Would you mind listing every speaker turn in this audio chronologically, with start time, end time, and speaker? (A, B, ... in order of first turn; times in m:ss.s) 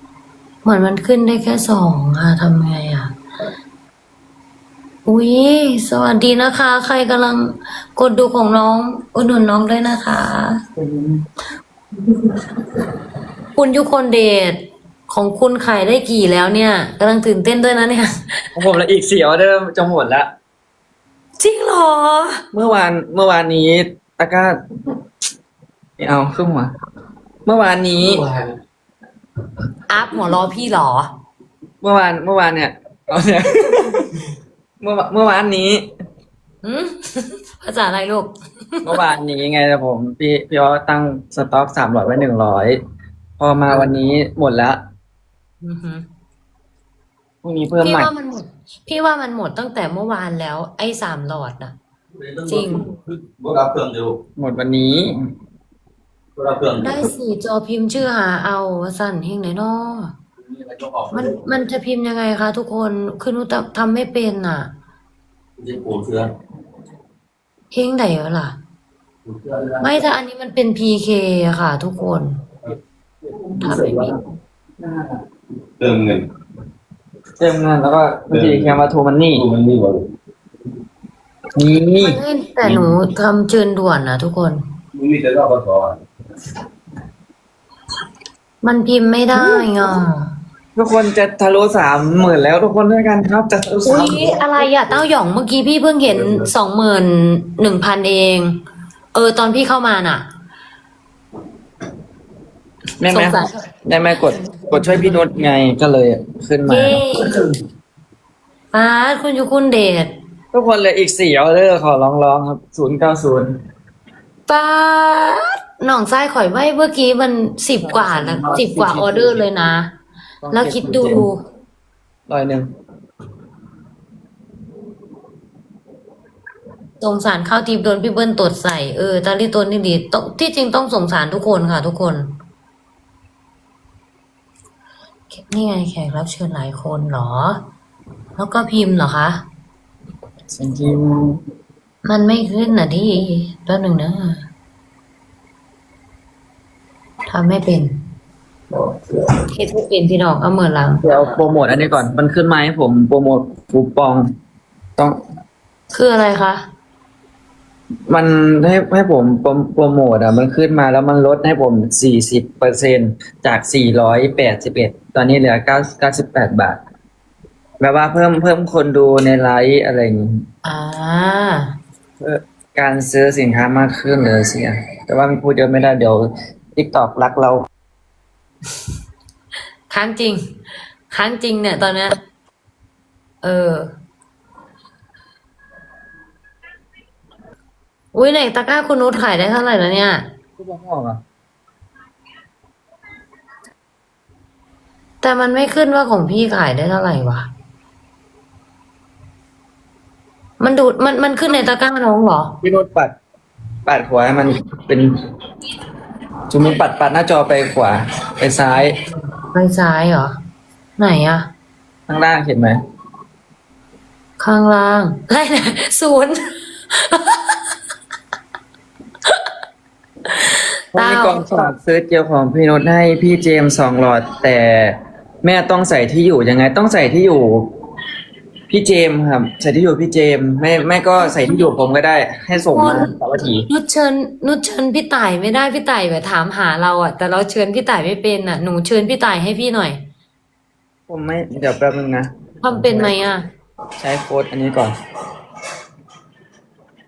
0:00.6-0:03.1 A
0:05.0-0:10.6 A
0:10.8-0:11.2 B
0:13.5-0:18.4 A
0:18.5-0:20.3 B
0:21.4-0:22.4 A
0:22.5-0:24.5 B
0:26.0-0:26.7 B
0:27.4-0:28.3 B
0:29.9-0:31.1 A
0:31.8-0:34.2 B
0:34.8-0:35.8 B
0:36.6-0:39.0 A
0:38.8-0:42.8 B
0:43.4-0:44.8 B
0:45.6-0:46.0 A
0:47.4-0:48.1 B
0:47.8-0:51.7 A
0:52.2-0:54.2 C
0:52.4-0:52.9 A
0:54.4-0:55.2 B
0:56.4-0:57.1 C
0:56.8-1:00.1 A
1:00.4-1:01.4 C
1:01.1-1:04.7 A
1:05.6-1:06.3 C
1:07.7-1:08.6 A
1:09.2-1:10.0 C
1:09.8-1:12.4 A
1:13.2-1:14.0 C
1:13.6-1:14.2 B
1:13.6-1:14.1 A
1:14.8-1:15.2 B
1:15.8-1:16.3 C
1:17.4-1:19.4 B
1:18.3-1:18.7 C
1:19.3-1:20.0 C
1:21.6-1:22.9 B
1:22.0-1:24.6 A
1:24.9-1:26.0 C
1:28.6-1:30.3 A
1:30.8-1:34.4 B
1:33.8-1:38.6 A
1:39.1-1:40.3 A
1:43.0-1:47.4 B
1:43.1-1:43.6 A
1:44.4-1:45.2 A
1:46.7-1:47.4 A
1:48.7-1:50.1 A
1:50.5-1:53.5 B
1:54.5-1:59.9 A
1:57.8-1:59.4 B
2:00.4-2:01.3 B
2:00.5-2:01.4 A
2:02.3-2:02.7 B
2:07.0-2:12.3 A
2:15.3-2:17.6 A
2:18.4-2:19.4 A
2:20.5-2:21.4 B
2:22.0-2:24.4 A
2:27.3-2:27.9 A
2:29.5-2:31.3 A
2:31.0-2:34.2 B
2:35.9-2:36.6 A
2:38.1-2:46.8 B
2:47.8-2:50.4 B
2:50.6-2:51.7 A
2:52.2-2:56.2 B
2:56.8-2:57.6 B
2:59.9-3:00.4 A
3:01.1-3:02.2 A
3:03.4-3:03.9 A
3:08.1-3:10.3 A
3:10.6-3:11.2 B
3:15.2-3:17.5 A
3:20.6-3:22.5 A
3:22.6-3:23.1 B
3:23.8-3:25.1 B
3:26.5-3:29.0 B
3:28.8-3:30.3 A
3:31.0-3:31.5 A
3:32.1-3:32.8 B
3:34.4-3:37.6 A
3:40.3-3:41.7 A
3:40.9-3:47.6 B
3:48.7-3:53.7 B
3:51.2-3:51.6 A
3:52.6-3:53.1 A
3:53.7-4:00.0 A
4:01.1-4:03.2 B
4:02.6-4:03.4 A
4:04.0-4:04.9 B